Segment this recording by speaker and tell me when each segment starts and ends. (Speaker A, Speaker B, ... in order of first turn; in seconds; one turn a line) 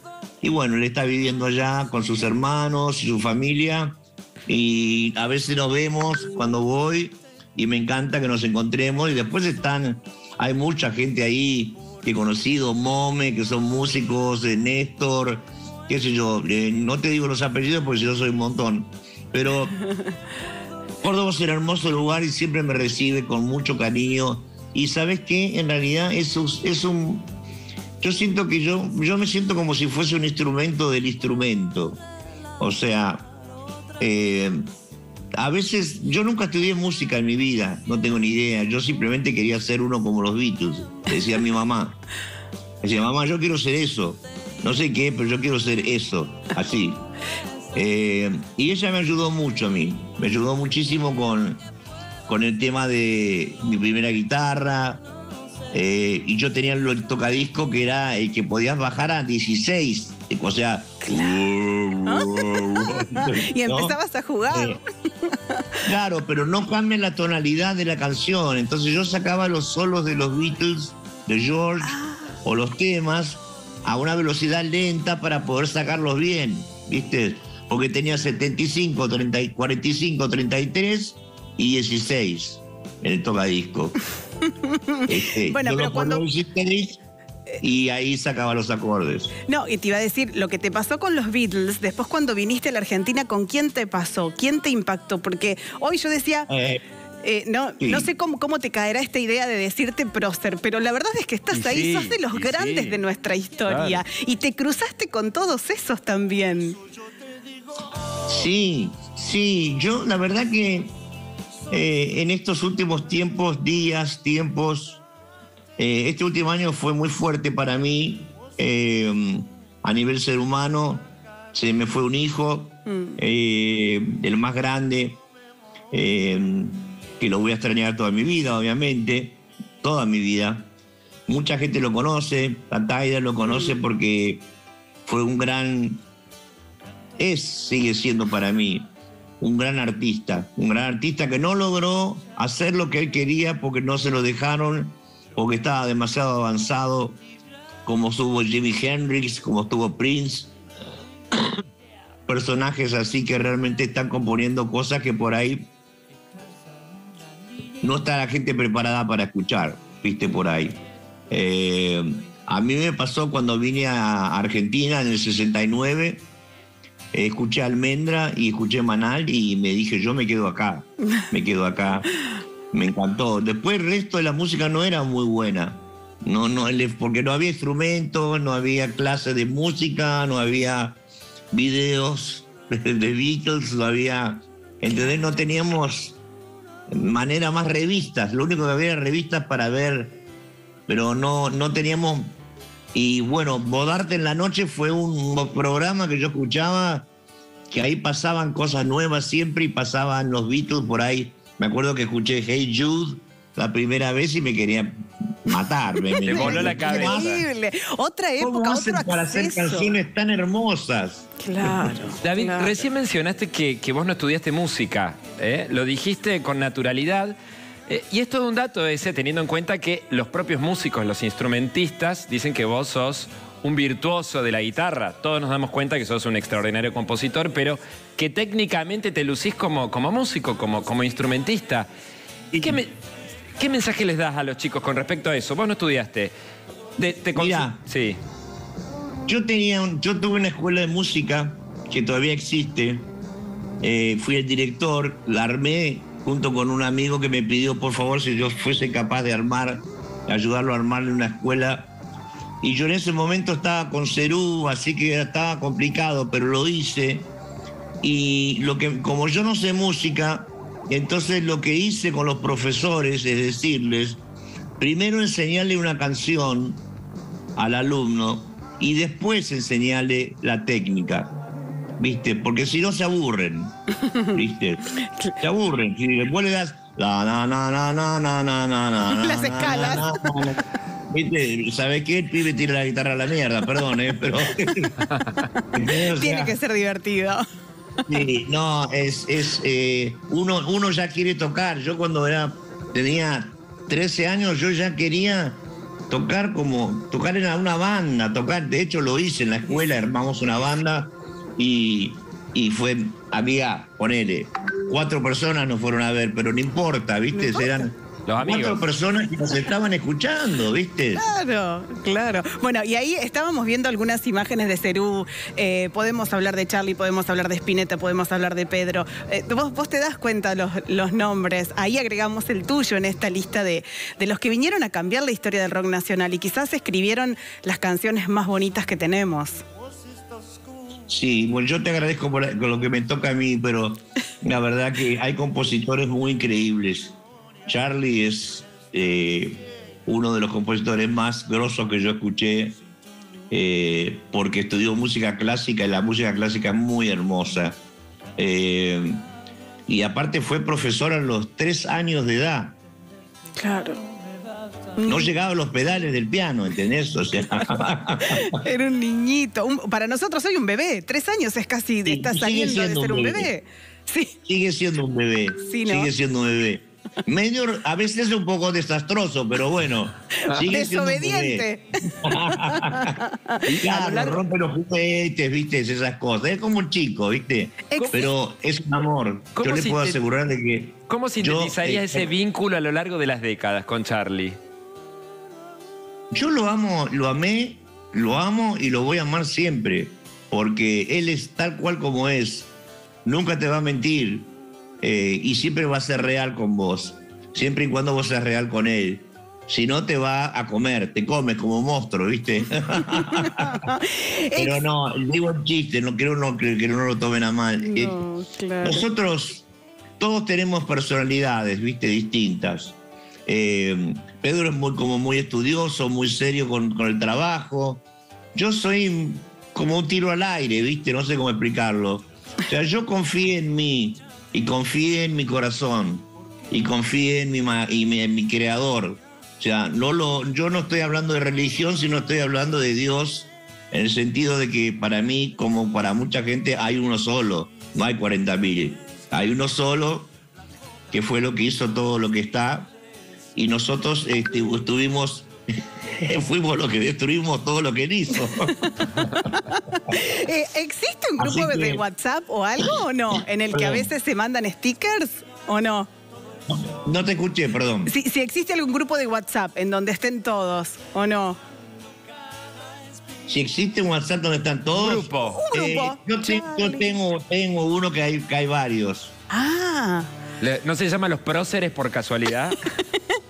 Speaker A: 0.4-19.8
Speaker A: 21.0-27.3
Speaker A: 28.0-32.0
Speaker A: 32.6-33.3
Speaker A: 34.0-34.6
Speaker A: 35.4-42.0
Speaker A: 42.8-47.0
Speaker A: 47.7-51.6
Speaker A: 52.3-55.0
Speaker A: 55.7-64.0
Speaker B: 61.0-61.4
Speaker B: 62.0-65.7
Speaker A: 64.5-64.8
Speaker A: 65.8-83.9
Speaker B: 71.8-72.3
Speaker B: 84.5-86.2
Speaker A: 85.1-87.0
Speaker A: 87.6-89.3
Speaker B: 89.5-96.5
Speaker A: 96.5-96.8
Speaker B: 97.2-106.8
Speaker A: 97.8-98.1
Speaker C: 101.5-103.0
Speaker C: 103.7-104.0
Speaker A: 108.3-110.9
Speaker A: 111.7-115.0
Speaker A: 115.8-125.2
Speaker B: 122.8-123.2
Speaker A: 125.9-130.7
Speaker A: 131.3-134.4
Speaker B: 133.4-133.8
Speaker A: 135.1-136.0
Speaker A: 137.2-138.9
Speaker A: 139.4-147.2
Speaker A: 147.8-150.5
Speaker A: 152.3-155.7
Speaker A: 157.8-160.8
Speaker A: 161.3-166.2
Speaker A: 167.1-172.1
Speaker A: 172.7-181.0
Speaker A: 181.5-186.2
Speaker A: 186.9-190.2
Speaker A: 190.9-192.3
Speaker A: 192.9-197.1
Speaker A: 197.7-204.9
Speaker A: 205.4-207.4
Speaker B: 206.0-209.9
Speaker C: 206.2-207.4
Speaker A: 208.4-211.9
Speaker B: 211.4-212.8
Speaker C: 212.2-217.3
Speaker C: 217.9-231.9
Speaker A: 232.5-232.8
Speaker C: 232.6-232.9
Speaker C: 233.6-236.3
Speaker C: 237.0-238.2
Speaker A: 237.3-237.8
Speaker A: 239.3-243.1
Speaker A: 243.8-251.9
Speaker A: 252.6-257.3
Speaker A: 258.0-264.2
Speaker A: 264.8-266.8
Speaker A: 267.6-271.3
Speaker A: 272.0-273.7
Speaker B: 274.0-274.4
Speaker A: 274.3-274.8
Speaker B: 275.0-275.3
Speaker A: 275.4-280.6
Speaker B: 279.1-280.2
Speaker A: 281.1-284.9
Speaker C: 285.1-285.4
Speaker A: 285.7-286.5
Speaker B: 285.9-287.4
Speaker A: 288.1-295.6
Speaker A: 296.1-311.2
Speaker B: 307.3-307.8
Speaker C: 308.3-308.8
Speaker B: 311.1-329.6
Speaker A: 331.1-337.1
Speaker A: 337.7-342.8
Speaker A: 343.5-347.8
Speaker A: 348.4-349.2
Speaker A: 349.9-352.8
Speaker B: 353.6-354.0
Speaker B: 355.0-355.3
Speaker A: 355.0-358.5
Speaker B: 358.2-364.3
Speaker A: 362.1-363.5
Speaker A: 364.4-371.7
Speaker B: 365.6-366.1
Speaker B: 370.6-374.4
Speaker A: 372.2-373.1
Speaker A: 373.7-382.3
Speaker B: 377.9-378.3
Speaker C: 379.6-380.2
Speaker C: 381.1-384.6
Speaker A: 386.3-392.7
Speaker A: 393.2-394.5
Speaker A: 395.0-403.8
Speaker B: 403.0-404.7
Speaker A: 404.6-408.2
Speaker B: 407.8-409.0
Speaker A: 408.8-409.7
Speaker A: 410.2-412.9
Speaker A: 413.5-440.3
Speaker A: 441.1-442.9
Speaker A: 443.5-445.5
Speaker A: 446.1-449.3
Speaker B: 448.6-456.1
Speaker A: 451.4-452.0
Speaker A: 453.7-454.1
Speaker A: 456.7-458.1
Speaker B: 458.1-461.6
Speaker A: 463.5-469.3
Speaker C: 464.9-465.6
Speaker B: 465.4-467.1
Speaker B: 469.5-470.3
Speaker C: 470.6-472.8
Speaker B: 472.7-473.2